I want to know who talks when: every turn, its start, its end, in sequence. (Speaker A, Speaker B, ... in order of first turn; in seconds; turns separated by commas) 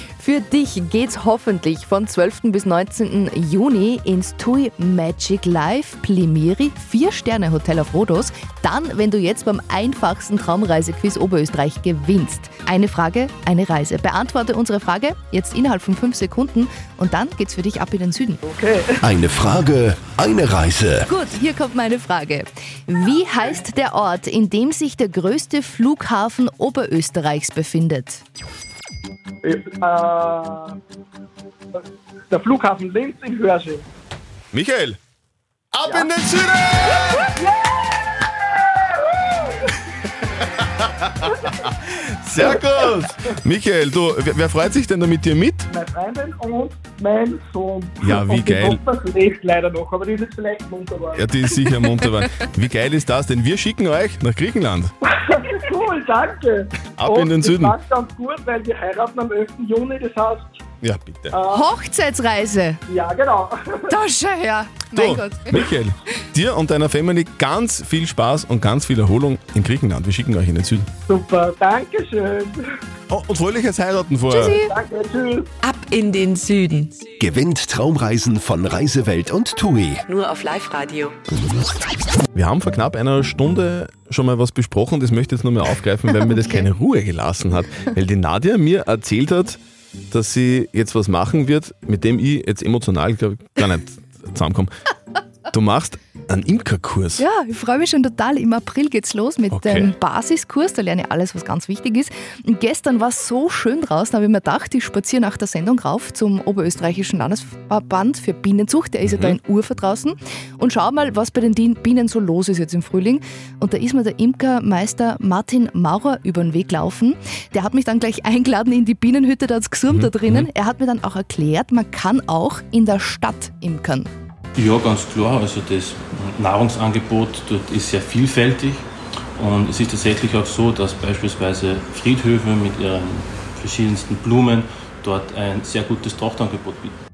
Speaker A: 0.2-18.4, Speaker B: 18.4-19.0, Speaker C: 19.0-21.1, Speaker A: 21.1-28.2, Speaker B: 29.4-30.8, Speaker B: 32.3-33.8, Speaker D: 34.5-35.0, Speaker D: 35.7-37.4, Speaker B: 37.4-39.5, Speaker D: 40.6-45.7, Speaker B: 45.7-51.2, Speaker D: 48.0-48.8, Speaker D: 51.1-54.9, Speaker B: 55.1-60.6, Speaker D: 57.0-57.8, Speaker D: 60.8-61.4, Speaker B: 61.3-61.7, Speaker A: 61.5-62.8, Speaker B: 62.9-63.9, Speaker A: 63.9-65.5, Speaker D: 64.9-70.9, Speaker B: 71.1-72.7, Speaker D: 73.1-74.6, Speaker E: 74.4-74.7, Speaker B: 74.6-75.5, Speaker E: 75.6-77.1, Speaker C: 77.2-80.0, Speaker E: 80.1-81.1, Speaker D: 82.3-89.6, Speaker D: 90.1-94.7, Speaker D: 95.5-97.2, Speaker A: 97.2-124.1, Speaker D: 99.5-99.9, Speaker D: 109.1-109.4, Speaker D: 119.9-120.5, Speaker F: 124.5-128.8, Speaker F: 129.4-136.9